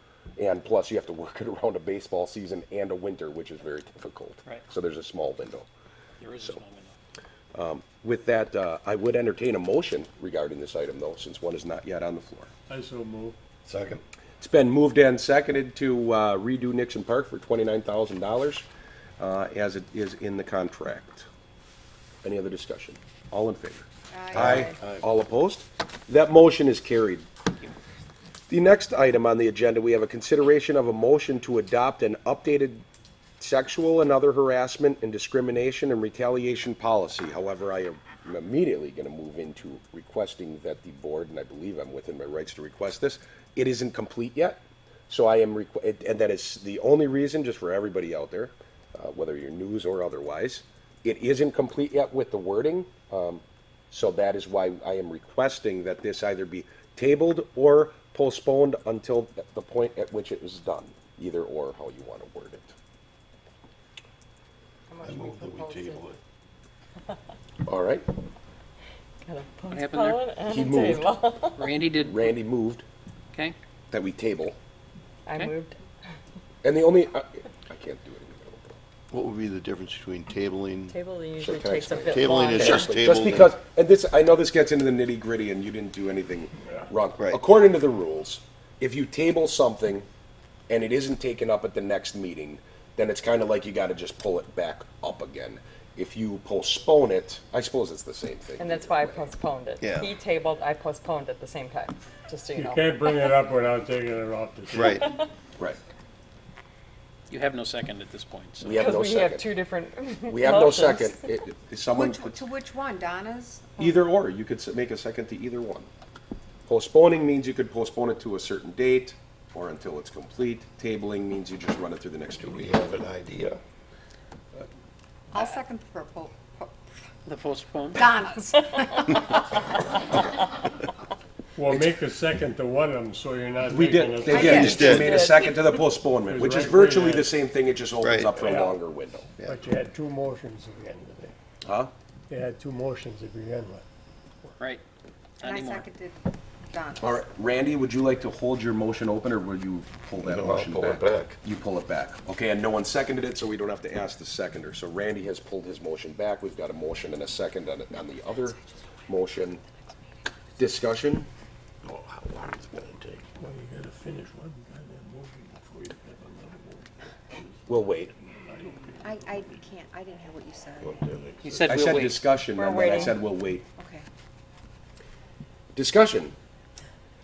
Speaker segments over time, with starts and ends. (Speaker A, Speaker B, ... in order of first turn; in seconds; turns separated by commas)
Speaker A: 0.4-5.7, Speaker B: 6.2-7.0, Speaker A: 7.5-12.5, Speaker C: 12.7-13.3, Speaker D: 13.6-14.0, Speaker A: 14.4-18.6, Speaker A: 19.2-21.3, Speaker A: 22.2-27.2, Speaker E: 24.1-24.7, Speaker D: 24.4-24.9, Speaker A: 28.5-32.8, Speaker A: 33.4-62.7, Speaker F: 64.9-66.0, Speaker D: 65.0-66.2, Speaker A: 67.6-68.0, Speaker F: 69.2-71.7, Speaker B: 69.7-70.2, Speaker A: 70.5-71.2, Speaker B: 71.5-72.3, Speaker A: 71.9-72.8, Speaker A: 73.9-74.5, Speaker F: 75.2-75.8, Speaker A: 76.6-78.8, Speaker D: 79.1-83.5, Speaker F: 80.9-83.0, Speaker A: 81.4-90.1, Speaker A: 90.7-99.3, Speaker F: 98.6-103.3, Speaker D: 99.8-100.1, Speaker C: 102.5-105.0, Speaker D: 104.7-105.1, Speaker B: 107.3-108.8, Speaker A: 108.6-109.5, Speaker F: 108.7-111.2, Speaker A: 110.3-112.4, Speaker E: 111.9-114.0, Speaker A: 113.8-115.9, Speaker A: 116.7-122.7, Speaker D: 122.4-123.6, Speaker E: 125.3-127.0, Speaker B: 127.2-128.0, Speaker E: 127.9-129.3, Speaker F: 129.0-129.2, Speaker C: 131.6-135.1, Speaker A: 133.7-139.3, Speaker F: 134.2-135.8, Speaker D: 134.4-135.2, Speaker C: 136.2-137.3, Speaker D: 138.0-138.4, Speaker C: 138.3-138.8, Speaker D: 139.4-139.6, Speaker C: 139.4-141.3, Speaker A: 141.6-141.9, Speaker C: 142.3-143.8, Speaker B: 145.4-145.8, Speaker E: 145.4-147.2, Speaker A: 147.0-159.6, Speaker D: 150.2-151.4, Speaker A: 160.6-161.3, Speaker D: 161.8-163.4, Speaker C: 163.3-169.6, Speaker A: 167.7-168.1, Speaker E: 169.0-170.9, Speaker D: 170.8-171.8, Speaker B: 171.4-172.2, Speaker A: 171.7-173.6, Speaker F: 172.5-173.2, Speaker E: 173.8-174.1, Speaker A: 175.8-176.3